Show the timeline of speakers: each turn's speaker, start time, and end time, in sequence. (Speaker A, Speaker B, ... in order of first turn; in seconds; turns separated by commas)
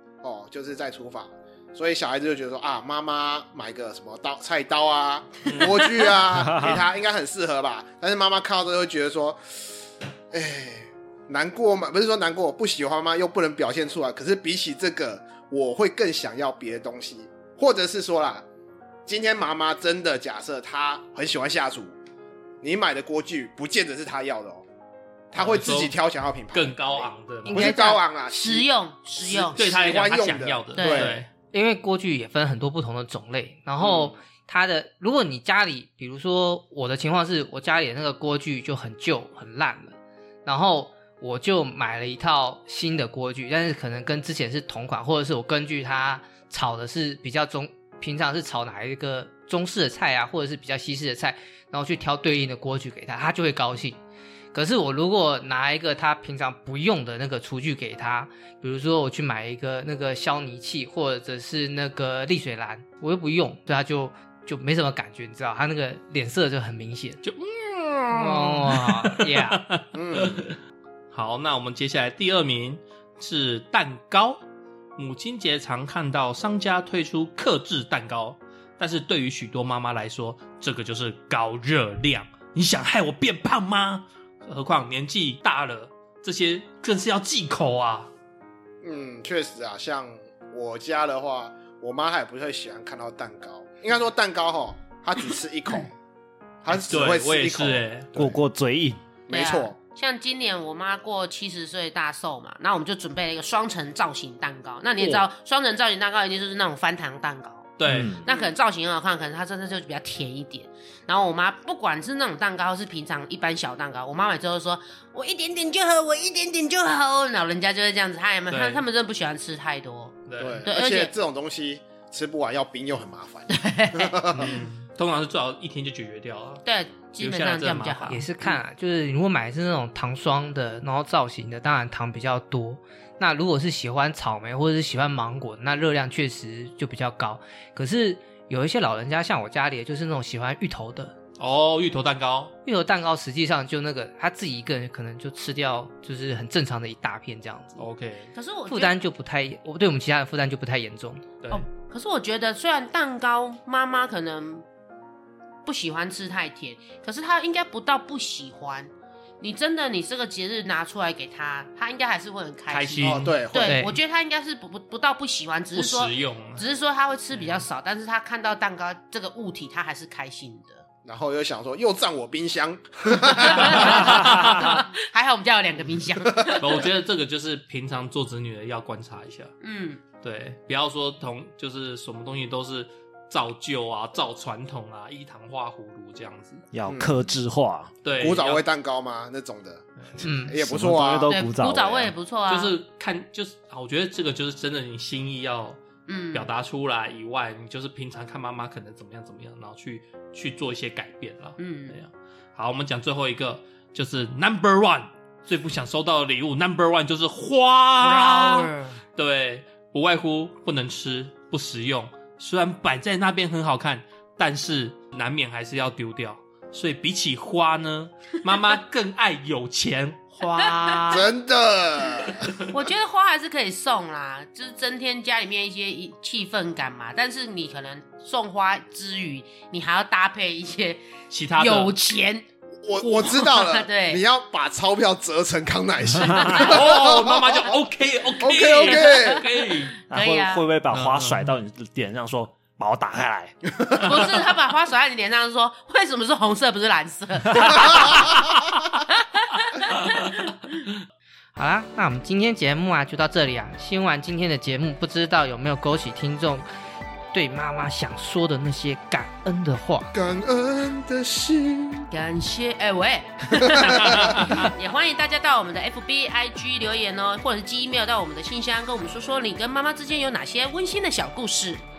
Speaker A: 0.2-9.8, Speaker B: 6.4-6.8, Speaker A: 10.3-18.4, Speaker A: 19.1-21.9, Speaker A: 22.6-24.6, Speaker A: 25.3-28.7, Speaker C: 25.4-25.9, Speaker C: 26.5-27.7, Speaker D: 27.5-28.0, Speaker E: 27.6-29.6, Speaker A: 29.2-31.2, Speaker C: 29.3-31.3, Speaker E: 30.7-31.2, Speaker D: 31.5-54.0, Speaker A: 33.8-34.1, Speaker D: 54.5-67.2, Speaker C: 67.2-70.6, Speaker D: 68.1-69.6, Speaker A: 69.9-70.5, Speaker C: 71.1-74.4, Speaker C: 75.0-88.1, Speaker A: 88.8-95.9, Speaker A: 96.6-98.4, Speaker C: 96.7-98.1, Speaker B: 98.2-99.0, Speaker A: 99.3-99.7, Speaker E: 99.3-121.1, Speaker C: 105.0-105.2, Speaker C: 107.8-108.4, Speaker B: 107.8-108.3, Speaker C: 118.5-118.8, Speaker C: 120.3-120.7, Speaker A: 120.4-124.6, Speaker E: 123.5-124.5, Speaker C: 124.3-126.6, Speaker E: 126.6-128.6, Speaker C: 127.2-128.2, Speaker D: 128.1-141.1, Speaker C: 141.4-142.5, Speaker D: 142.7-147.8, Speaker C: 147.8-148.3, Speaker E: 148.3-148.9, Speaker D: 148.7-151.2, Speaker E: 151.5-154.6, Speaker E: 155.6-170.8, Speaker C: 162.7-163.4, Speaker A: 163.0-163.8, Speaker D: 163.6-163.9, Speaker C: 165.7-166.6, Speaker C: 167.3-167.7, Speaker A: 171.0-174.2, Speaker E: 173.4-176.8, Speaker C: 173.4-174.8, Speaker C: 176.5-179.5, Speaker E: 179.6-180.0, Speaker C: 180.2-186.6, Speaker B: 186.7-187.9, Speaker A: 186.9-187.1, Speaker C: 188.0-188.6, Speaker A: 188.1-189.8, Speaker D: 190.2-190.5, Speaker A: 190.5-191.3, Speaker B: 190.5-192.1, Speaker E: 191.3-192.8, Speaker C: 192.5-195.8, Speaker E: 196.1-196.5, Speaker C: 196.3-221.3, Speaker E: 201.6-201.9, Speaker E: 208.0-209.0, Speaker E: 220.6-221.0, Speaker A: 221.1-222.5, Speaker E: 222.7-232.4, Speaker C: 231.3-231.9, Speaker A: 232.8-237.8, Speaker E: 233.0-234.2, Speaker B: 236.2-236.5, Speaker E: 236.4-236.8, Speaker C: 236.5-240.0, Speaker A: 238.4-239.4, Speaker E: 238.8-239.5, Speaker E: 240.1-240.6, Speaker B: 240.1-243.6, Speaker C: 240.9-241.5, Speaker A: 243.7-244.3, Speaker E: 244.0-250.8, Speaker D: 251.6-256.6, Speaker D: 257.3-260.1, Speaker A: 260.1-262.1, Speaker E: 262.1-271.8, Speaker A: 263.5-264.6, Speaker C: 263.9-264.7